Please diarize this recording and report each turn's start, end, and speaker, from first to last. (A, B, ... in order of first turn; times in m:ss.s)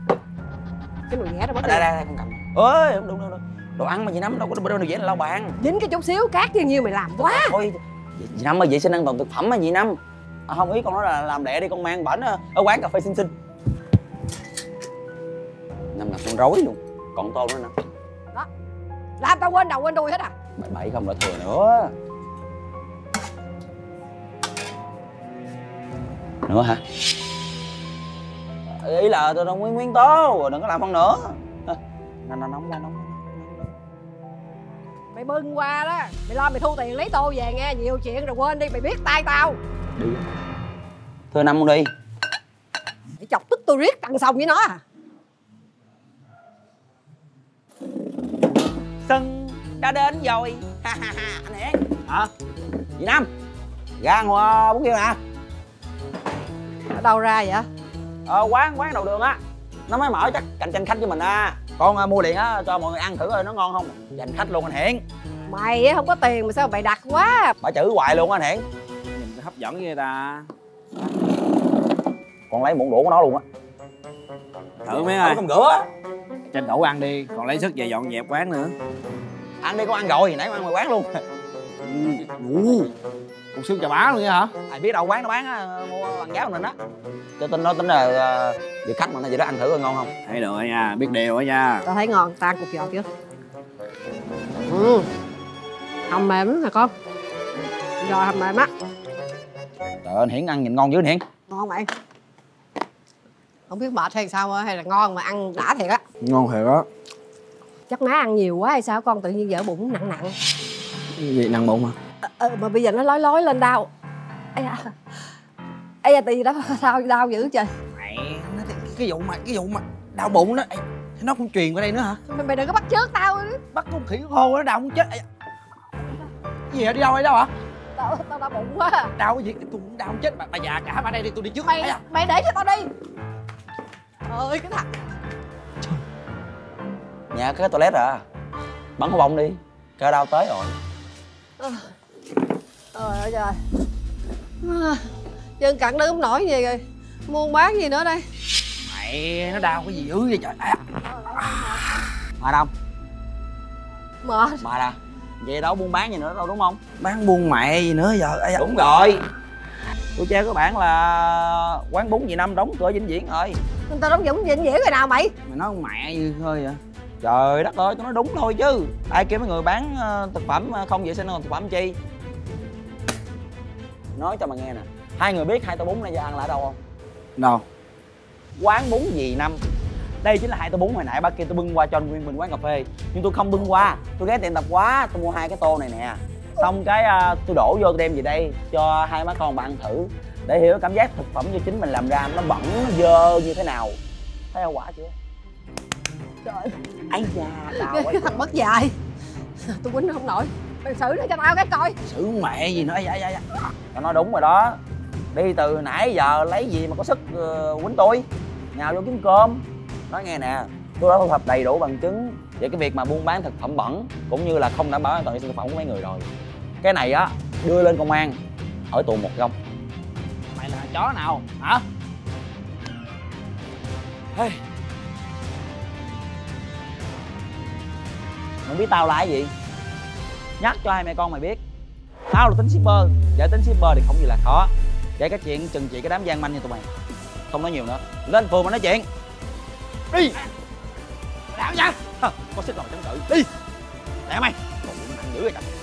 0:01.1-0:01.8 A
0:01.6-0:05.5 B
0:05.6-0:07.6 A
0:07.2-0:13.3 B
0:15.9-0:17.7 B
0:19.2-0:20.3 A
0:20.6-0:21.9 B
0:26.4-0:26.8 B
0:28.8-0:33.7 B
0:35.1-0:39.6 A
0:40.0-0:40.2 B
0:41.3-0:41.9 B
0:43.2-0:44.8 A
0:49.0-0:51.8 B
0:53.0-0:53.3 B
0:54.0-0:55.2 B
0:56.9-0:57.7 A
0:58.2-1:05.0 B
1:05.5-1:07.5 A
1:07.6-1:08.6 B
1:09.1-1:10.5 C
1:12.5-1:13.4 B
1:14.8-1:15.4 C
1:14.9-1:15.9 B
1:16.5-1:18.7 C
1:19.6-1:21.1 B
1:21.8-1:22.9 C
1:23.5-1:24.5 C
1:24.7-1:26.7 B
1:27.4-1:30.1 B
1:30.2-1:31.8 C
1:31.8-1:33.1 A
1:34.7-1:35.1 A
1:36.1-1:36.9 A
1:38.0-1:38.7 A
1:40.0-1:41.2 B
1:41.5-1:41.9 A
1:43.7-1:46.0 A
1:46.2-1:46.8 C
1:47.9-1:50.4 A
1:51.1-1:52.0 C
1:52.2-1:53.9 A
1:54.5-1:55.0 A
1:56.0-1:57.7 A
1:57.9-2:02.2 C
2:02.3-2:03.6 A
2:03.7-2:05.2 C
2:06.7-2:07.5 C
2:07.9-2:09.1 A
2:09.2-2:12.0 C
2:11.6-2:12.9 A
2:14.2-2:15.0 A
2:17.3-2:18.2 B
2:19.0-2:20.8 B
2:21.6-2:21.9 A
2:22.9-2:23.6 A
2:24.6-2:25.0 A
2:25.6-2:28.2 A
2:28.8-2:30.8 C
2:31.2-2:31.6 A
2:32.4-2:32.7 B
2:34.2-2:34.6 A
2:34.6-2:36.9 B
2:37.0-2:38.6 C
2:38.6-2:39.2 B
2:40.2-2:43.6 B
2:43.9-2:45.3 A
2:45.5-2:46.8 C
2:47.2-2:52.0 B
2:54.2-2:56.8 B
2:57.4-2:57.6 C
2:58.6-2:59.6 B
3:00.2-3:14.0 B
3:14.5-3:15.1 B
3:17.1-3:18.5 B
3:17.7-3:18.9 A
3:19.6-3:22.0 A
3:22.0-3:23.4 C
3:23.9-3:24.8 B
3:25.3-3:36.3 B
3:36.8-3:38.4 B
3:38.9-3:39.6 B
3:40.5-3:41.8 C
3:44.3-3:44.6 B
3:48.6-3:49.5 B
3:50.6-3:51.6 B
3:52.3-3:56.9 B
3:57.5-3:59.1 B
4:00.1-4:00.4 C
4:01.5-4:02.0 C
4:02.2-4:03.4 B
4:04.3-4:05.6 B